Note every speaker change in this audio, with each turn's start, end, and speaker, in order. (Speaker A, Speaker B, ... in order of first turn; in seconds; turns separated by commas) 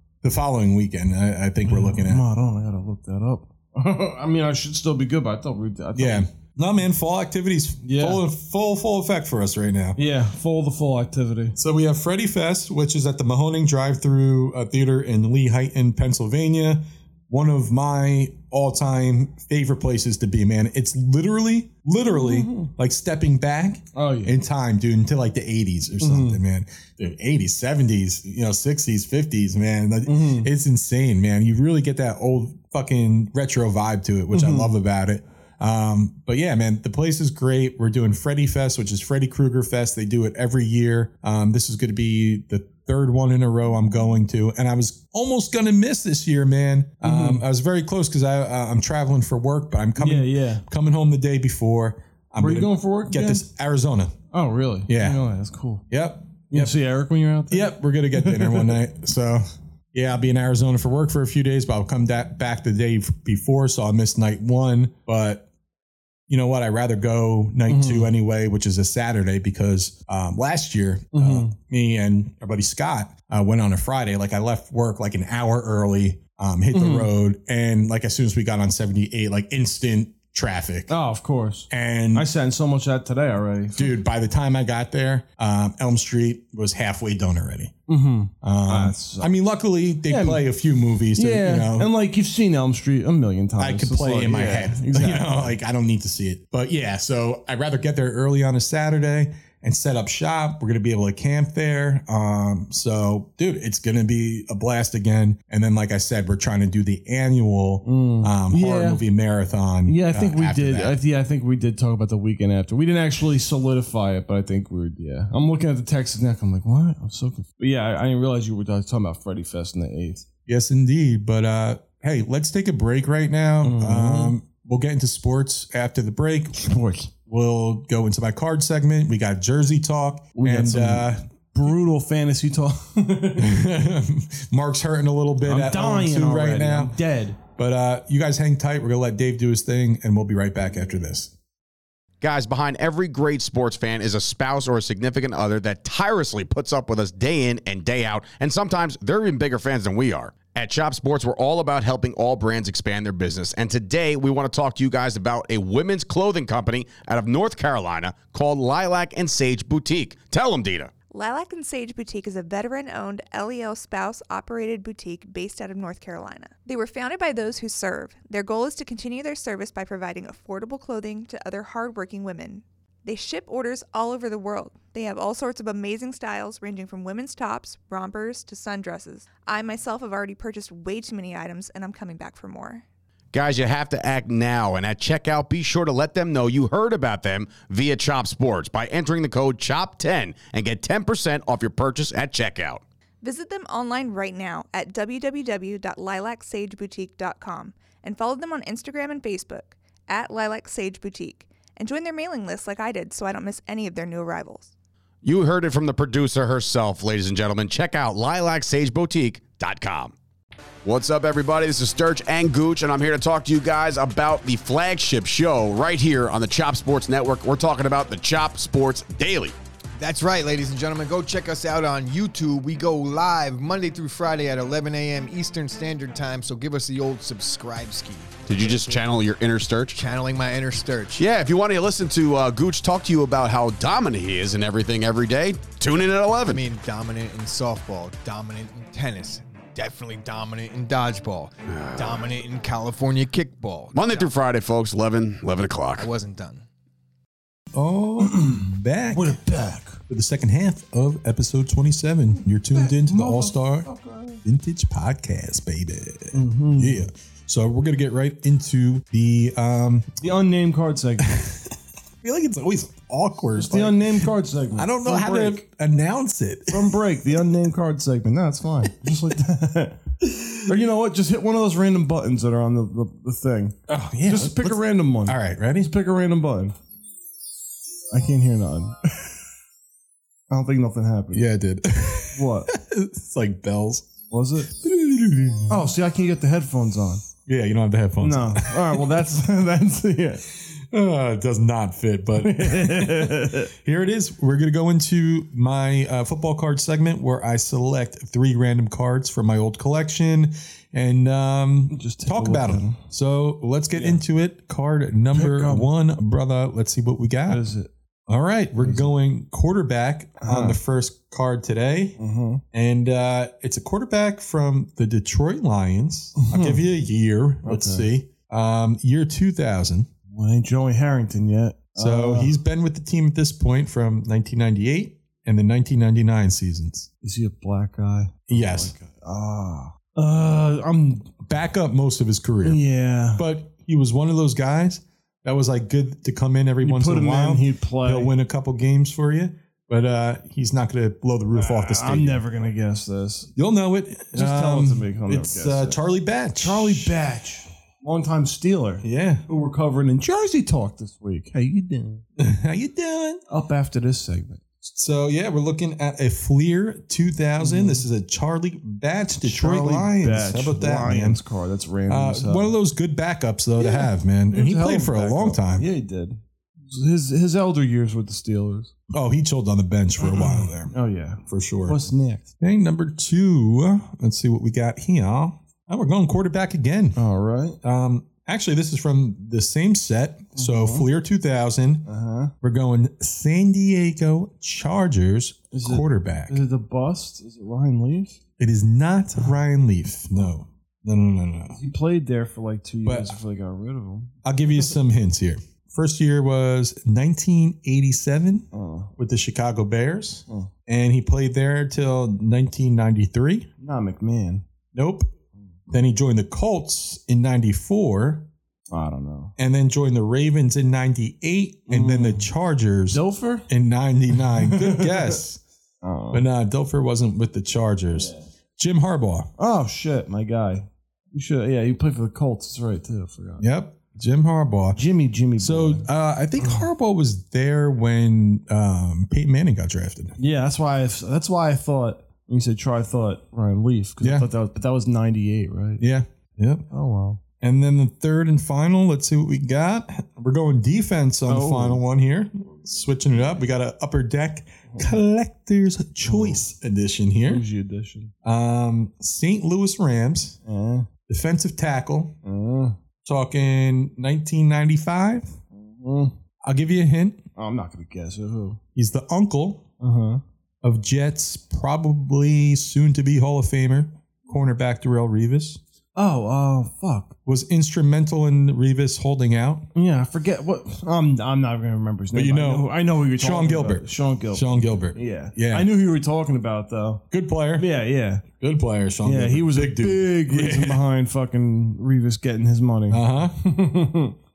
Speaker A: 0.2-2.2, Speaker B: 1.6-6.3, Speaker A: 5.9-10.0, Speaker B: 7.8-8.2, Speaker B: 9.9-11.5, Speaker A: 11.5-54.1, Speaker B: 22.0-22.7, Speaker B: 23.9-24.4, Speaker B: 26.0-26.4, Speaker B: 30.0-30.5, Speaker B: 34.3-34.7, Speaker B: 47.0-47.4, Speaker B: 50.0-50.6, Speaker B: 52.4-53.4, Speaker B: 54.3-55.8, Speaker A: 54.9-55.2, Speaker A: 55.9-56.7, Speaker B: 56.5-58.8, Speaker A: 57.5-65.5, Speaker A: 66.3-80.9, Speaker B: 67.7-68.1, Speaker B: 71.1-71.5, Speaker B: 76.7-77.1, Speaker B: 80.9-84.0, Speaker A: 81.7-82.2, Speaker A: 83.8-87.7, Speaker B: 87.9-89.3, Speaker A: 88.4-91.9, Speaker B: 90.1-90.4, Speaker B: 91.2-95.5, Speaker A: 93.6-111.0, Speaker B: 107.8-109.0, Speaker B: 109.9-120.2, Speaker A: 120.5-126.6, Speaker B: 123.6-124.3, Speaker B: 126.5-127.1, Speaker A: 127.2-131.2, Speaker B: 130.3-133.7, Speaker A: 133.4-141.3, Speaker B: 135.4-137.4, Speaker C: 142.2-160.9, Speaker D: 161.1-182.8, Speaker C: 183.3-192.8, Speaker D: 193.2-204.7, Speaker C: 205.2-210.1, Speaker C: 210.8-219.6, Speaker E: 220.0-229.0, Speaker C: 228.4-230.0, Speaker E: 229.9-231.2, Speaker C: 231.2-236.6, Speaker E: 236.4-244.3, Speaker C: 241.7-242.2, Speaker C: 243.9-246.1, Speaker E: 246.0-246.6, Speaker A: 247.7-249.4, Speaker B: 248.2-250.0, Speaker A: 250.1-253.9, Speaker B: 252.7-254.4, Speaker A: 254.4-260.2, Speaker B: 256.3-257.1, Speaker B: 260.2-261.4, Speaker A: 261.3-261.6, Speaker A: 262.2-267.6, Speaker B: 263.5-265.6, Speaker B: 266.7-276.8, Speaker A: 273.9-275.9, Speaker B: 278.1-279.3, Speaker B: 280.5-281.4, Speaker A: 281.3-284.1, Speaker B: 282.3-282.7, Speaker B: 284.3-284.7, Speaker A: 284.7-285.9, Speaker B: 285.7-287.2, Speaker A: 287.4-289.1, Speaker B: 288.2-290.4, Speaker A: 290.9-307.6, Speaker B: 292.4-293.7, Speaker B: 301.9-303.0, Speaker B: 303.9-304.2, Speaker B: 305.3-305.9, Speaker B: 307.5-307.9, Speaker A: 308.3-312.2, Speaker B: 308.8-309.1, Speaker B: 310.4-310.8, Speaker B: 312.2-312.6, Speaker A: 312.7-320.1, Speaker B: 316.4-316.8, Speaker B: 317.6-318.1, Speaker B: 320.3-322.5, Speaker A: 321.9-327.1, Speaker B: 327.2-331.3, Speaker A: 328.5-328.9, Speaker A: 331.4-332.8, Speaker B: 332.6-333.4, Speaker A: 333.3-342.4, Speaker B: 336.8-338.3, Speaker B: 341.5-343.5, Speaker A: 343.6-347.1, Speaker B: 344.3-346.0, Speaker B: 346.6-352.2, Speaker A: 349.0-349.4, Speaker A: 352.4-353.4, Speaker B: 353.5-354.7, Speaker A: 354.9-361.4, Speaker B: 357.6-358.0, Speaker B: 359.4-362.7, Speaker A: 362.1-365.9, Speaker B: 363.8-368.9, Speaker A: 369.1-370.9, Speaker B: 370.2-372.5, Speaker A: 371.5-372.0, Speaker A: 372.6-377.2, Speaker B: 377.1-377.8, Speaker A: 377.8-382.0, Speaker B: 380.5-381.1, Speaker B: 382.0-382.5, Speaker A: 382.6-386.6, Speaker B: 385.7-388.4, Speaker A: 388.6-391.8, Speaker B: 391.7-394.3, Speaker A: 393.0-393.3, Speaker A: 394.4-398.6, Speaker B: 398.7-399.1, Speaker A: 399.2-403.7, Speaker B: 403.8-404.6, Speaker A: 404.9-405.3, Speaker A: 405.9-408.4, Speaker B: 408.9-409.5, Speaker A: 409.6-415.6, Speaker B: 411.9-412.5, Speaker B: 413.1-413.7, Speaker B: 414.4-415.4, Speaker B: 416.0-416.4, Speaker A: 416.3-419.5, Speaker B: 418.1-418.4, Speaker B: 419.6-423.7, Speaker A: 423.6-425.0, Speaker B: 424.9-426.1, Speaker A: 425.6-430.3, Speaker B: 430.4-436.0, Speaker A: 434.2-434.5, Speaker A: 436.0-436.8, Speaker B: 436.9-437.4, Speaker A: 437.6-447.6, Speaker B: 441.5-442.0, Speaker B: 444.9-445.1, Speaker B: 446.3-446.6, Speaker B: 447.4-448.3, Speaker A: 448.4-450.6, Speaker B: 450.6-451.1, Speaker A: 451.3-452.3, Speaker B: 452.4-453.0, Speaker A: 453.2-455.5, Speaker B: 455.7-456.3, Speaker A: 456.6-457.4, Speaker B: 457.6-458.8, Speaker A: 458.9-459.9, Speaker B: 460.0-460.4, Speaker A: 460.8-465.8, Speaker B: 466.1-467.3, Speaker A: 467.4-469.9, Speaker B: 469.9-477.2, Speaker A: 472.3-475.9, Speaker A: 477.3-477.9, Speaker B: 477.8-478.4, Speaker A: 478.5-481.0, Speaker B: 479.2-484.3, Speaker A: 483.1-483.6